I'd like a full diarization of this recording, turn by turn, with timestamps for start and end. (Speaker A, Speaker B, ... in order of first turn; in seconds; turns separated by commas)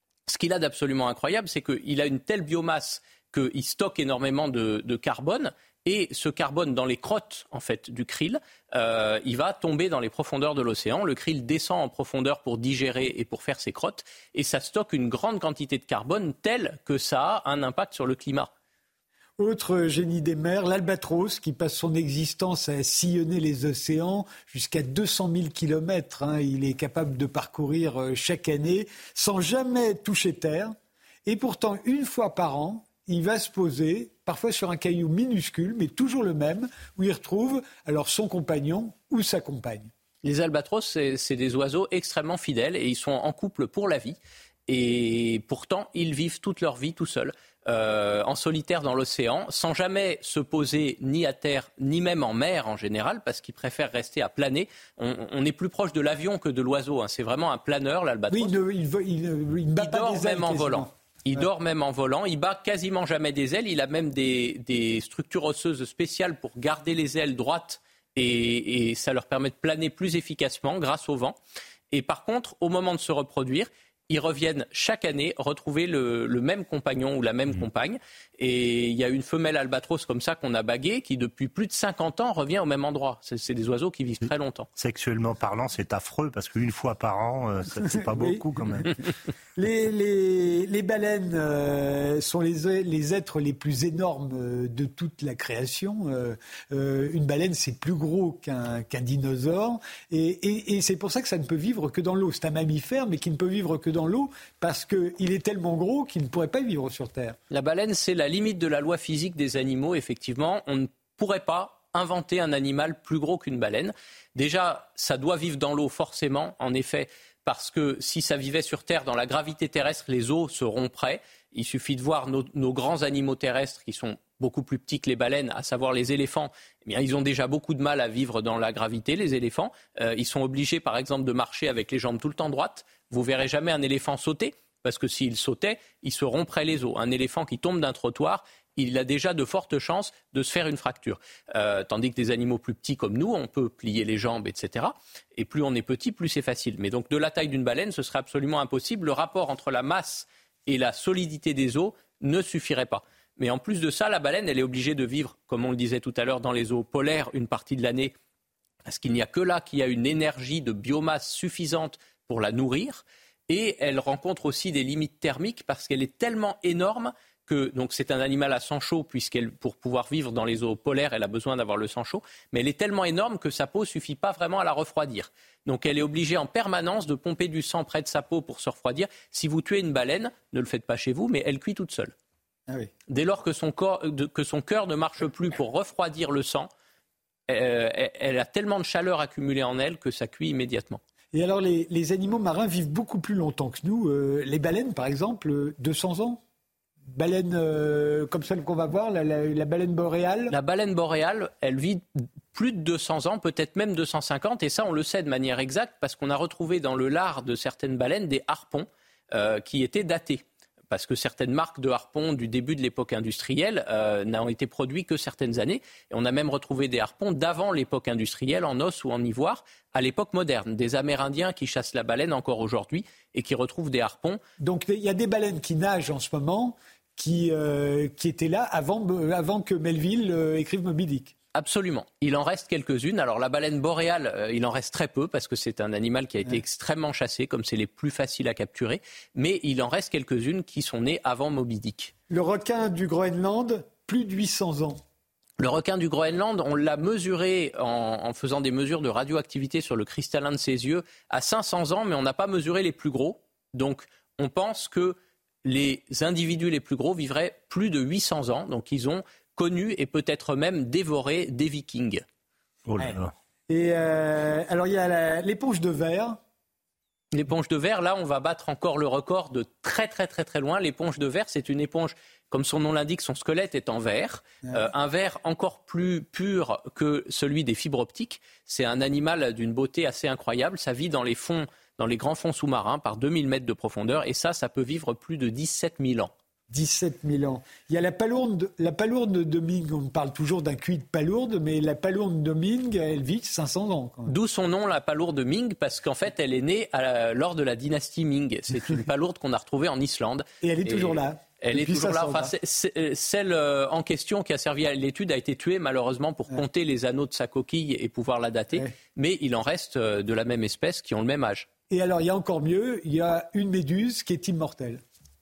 Speaker A: 0.3-18.5, Speaker B: 19.4-30.7, Speaker B: 31.2-39.9, Speaker A: 40.2-58.5, Speaker B: 58.3-61.4, Speaker A: 59.8-71.4, Speaker A: 71.9-84.7, Speaker C: 84.2-89.0, Speaker B: 87.8-88.4, Speaker B: 89.5-107.4, Speaker A: 107.5-158.1, Speaker A: 158.8-182.1, Speaker A: 183.1-186.7, Speaker A: 187.5-191.0, Speaker B: 191.3-196.4, Speaker B: 197.1-200.6, Speaker A: 200.5-224.4, Speaker B: 224.6-231.3, Speaker A: 231.5-242.1, Speaker B: 242.3-245.0, Speaker A: 245.6-262.2, Speaker C: 262.9-263.3, Speaker B: 263.0-266.4, Speaker A: 267.3-286.3, Speaker B: 286.7-294.3, Speaker A: 294.3-311.7, Speaker B: 300.6-302.5, Speaker B: 311.9-315.0